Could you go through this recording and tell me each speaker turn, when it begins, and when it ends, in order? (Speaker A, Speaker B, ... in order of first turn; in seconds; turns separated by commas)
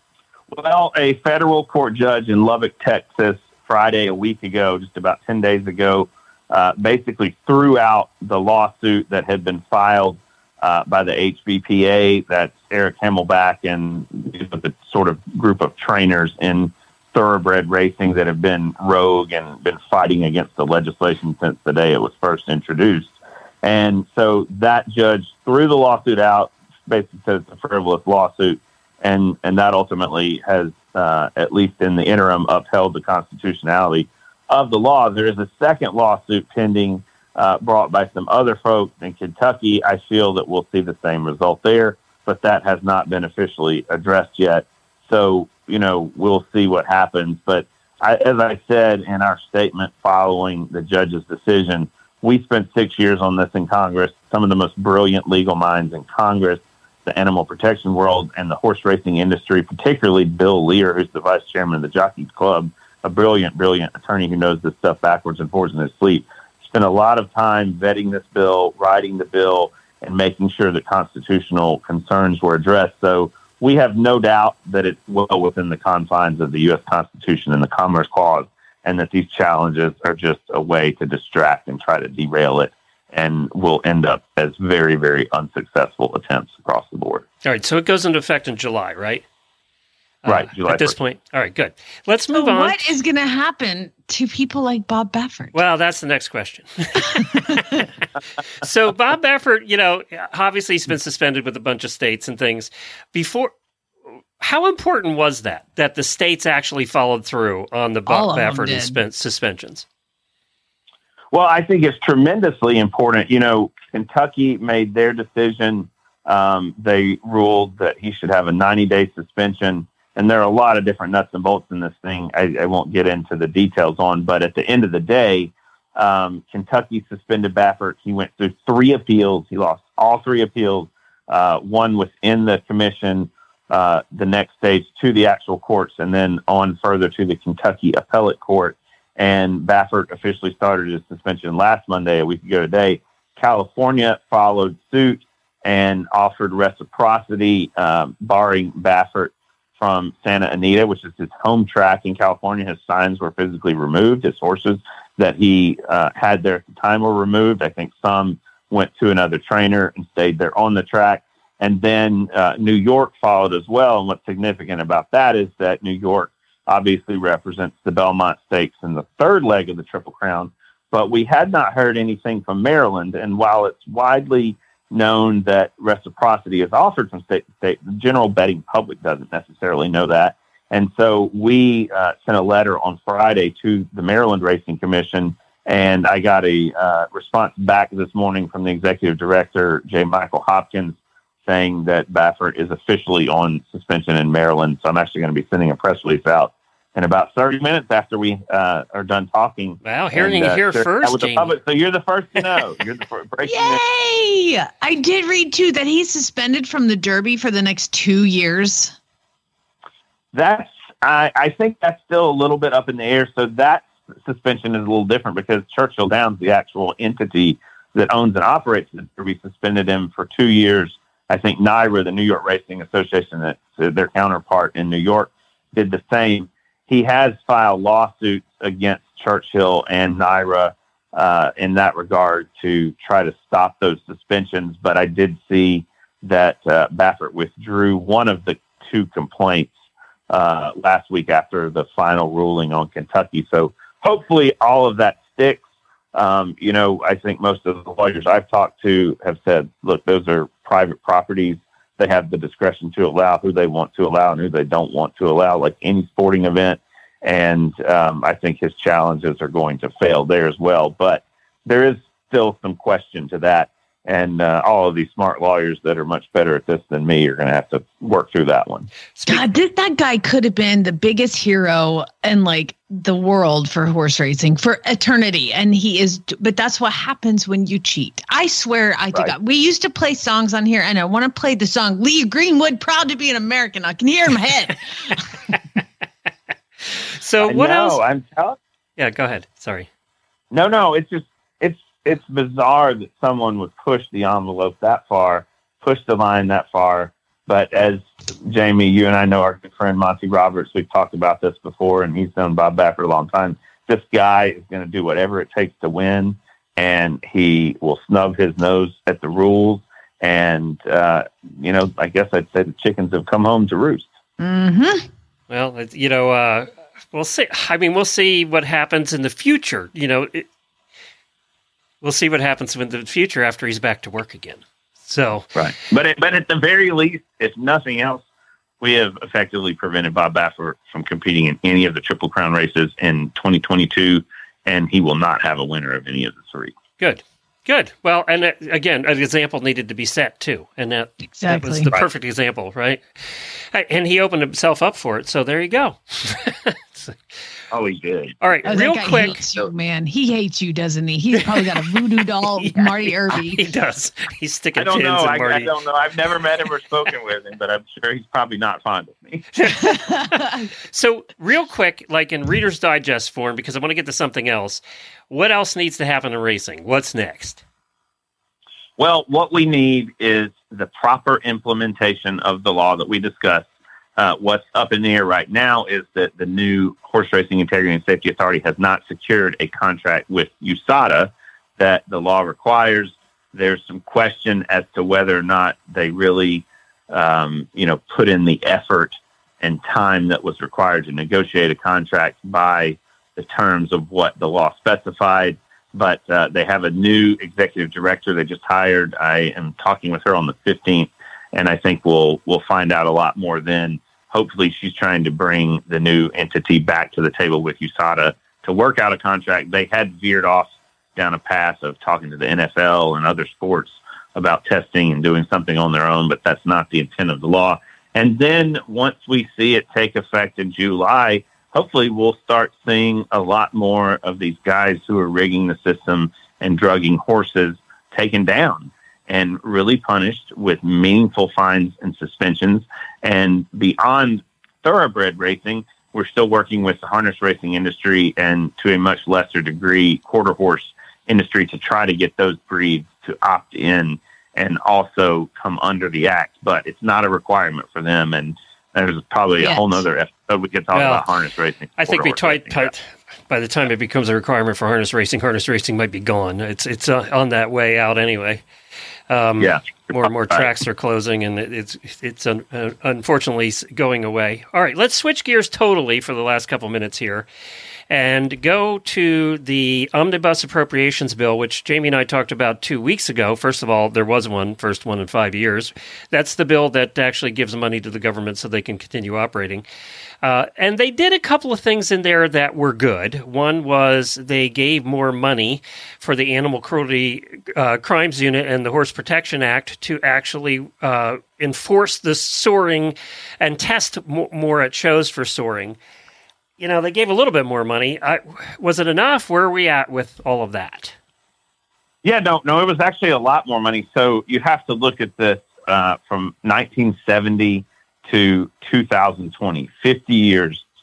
Speaker A: 0.5-23.1, Speaker A: 23.6-87.2, Speaker B: 87.4-89.2, Speaker B: 90.2-92.8, Speaker A: 90.3-91.0, Speaker C: 92.3-95.5, Speaker B: 95.5-97.8, Speaker C: 97.2-97.8, Speaker B: 98.6-103.5, Speaker B: 104.4-109.8, Speaker C: 108.1-109.0, Speaker A: 111.3-190.9, Speaker A: 191.5-203.8, Speaker B: 199.8-201.6, Speaker C: 203.5-208.9, Speaker A: 210.3-239.7, Speaker A: 240.3-245.6, Speaker A: 246.1-268.9, Speaker B: 269.1-269.5, Speaker C: 269.3-285.3, Speaker B: 287.2-288.0, Speaker A: 287.4-288.6, Speaker B: 289.0-289.9, Speaker A: 290.5-314.1, Speaker C: 314.4-315.1, Speaker B: 315.5-320.5, Speaker B: 322.0-325.5, Speaker A: 325.6-328.2, Speaker A: 328.8-336.7, Speaker B: 337.0-343.0, Speaker C: 341.4-341.9, Speaker B: 343.7-347.2, Speaker A: 347.7-348.4, Speaker B: 348.4-349.4, Speaker C: 348.7-353.6, Speaker B: 351.4-355.7, Speaker A: 354.8-359.4, Speaker B: 359.6-360.0, Speaker C: 359.8-360.7, Speaker B: 360.9-367.6, Speaker A: 369.0-373.7, Speaker A: 374.2-452.9, Speaker C: 449.6-450.1, Speaker B: 450.9-451.2, Speaker B: 452.0-458.6, Speaker B: 459.3-467.5, Speaker A: 459.6-460.7, Speaker B: 468.1-479.9, Speaker B: 480.4-496.0, Speaker B: 496.8-501.1, Speaker A: 502.2-510.8